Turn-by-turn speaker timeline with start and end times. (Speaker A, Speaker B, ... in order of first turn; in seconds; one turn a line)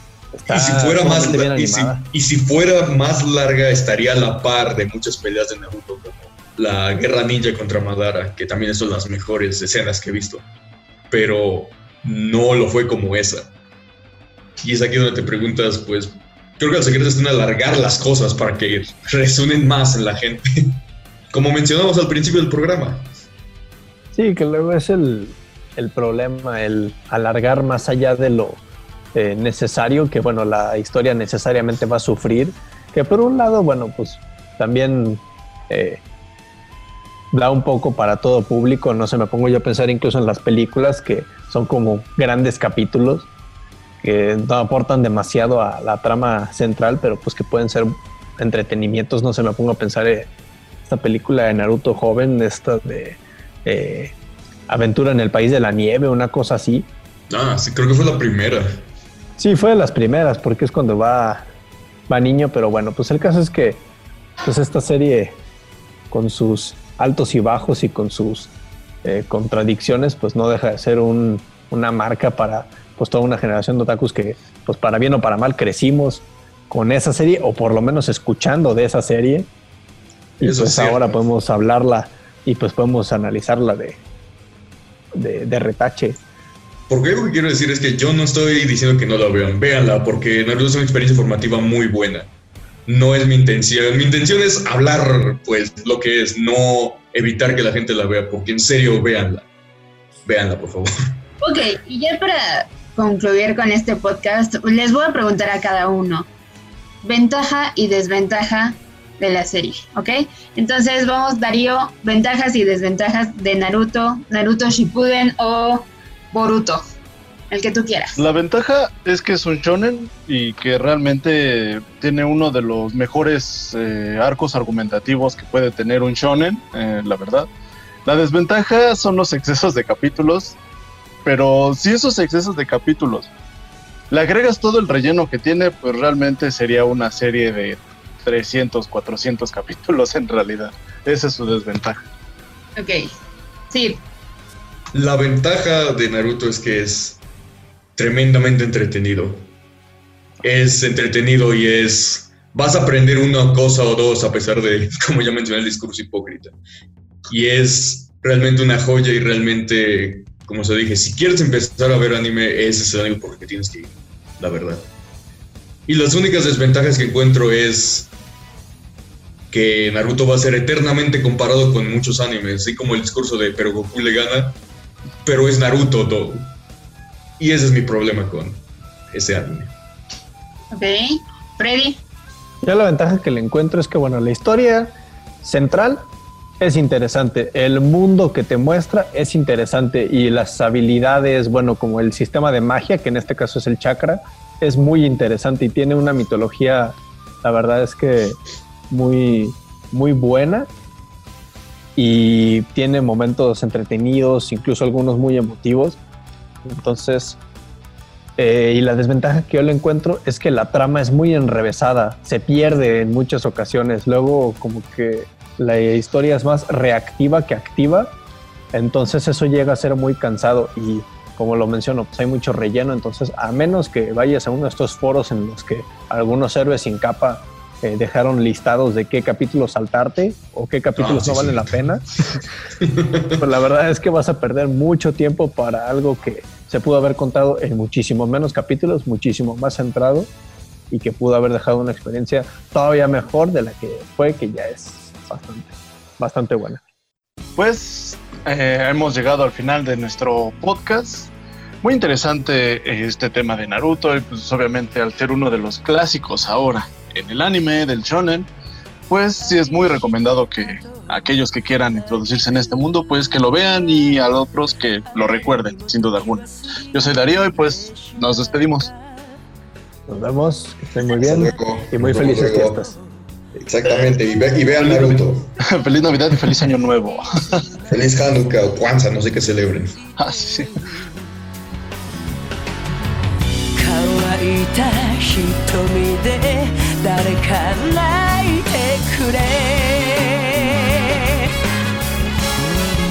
Speaker A: 0.3-2.0
Speaker B: 0.5-10.4
Speaker B: 11.1-13.5
Speaker B: 14.6-20.8
Speaker B: 21.3-23.2
Speaker A: 24.1-28.6
Speaker A: 29.1-36.0
Speaker A: 37.3-43.3
Speaker A: 44.0-50.3
Speaker A: 50.9-54.1
Speaker A: 54.7-56.9
Speaker B: 57.3-58.8
Speaker A: 59.4-61.5
Speaker A: 62.1-63.8
Speaker A: 64.4-65.4
Speaker A: 66.1-68.5
Speaker A: 69.0-79.5
Speaker B: 80.4-81.2
Speaker A: 80.4-84.0
Speaker A: 85.1-86.2
Speaker B: 86.9-92.3
Speaker B: 92.9-99.5
Speaker B: 100.2-100.9
Speaker C: 101.4-106.3
Speaker C: 107.0-116.8
Speaker C: 117.5-118.2
Speaker D: 118.2-127.5
Speaker D: 128.1-130.6
Speaker D: 131.2-133.3
Speaker D: 134.1-142.0
Speaker C: 142.8-143.1
Speaker C: 143.7-144.0
Speaker B: 144.9-147.2
Speaker B: 147.9-149.5
Speaker B: 150.4-156.5
Speaker B: 157.3-164.9
Speaker B: 165.9-168.1
Speaker B: 169.5-174.6
Speaker B: 175.2-176.5
Speaker B: 177.4-179.7
Speaker C: 180.7-182.0
Speaker A: 182.6-186.1
Speaker A: 186.6-198.4
Speaker A: 198.9-200.7
Speaker A: 201.9-206.0
Speaker A: 206.6-207.4
Speaker A: 208.4-218.2
Speaker A: 218.7-232.1
Speaker B: 230.9-231.8
Speaker B: 232.8-233.3
Speaker A: 233.3-240.3
Speaker A: 240.9-246.8
Speaker D: 247.6-258.5
Speaker D: 259.1-268.9
Speaker A: 270.1-272.9
Speaker B: 271.2-272.8
Speaker B: 273.6-275.5
Speaker D: 274.8-277.7
Speaker B: 277.9-280.0
Speaker D: 280.2-280.7
Speaker E: 283.8-291.4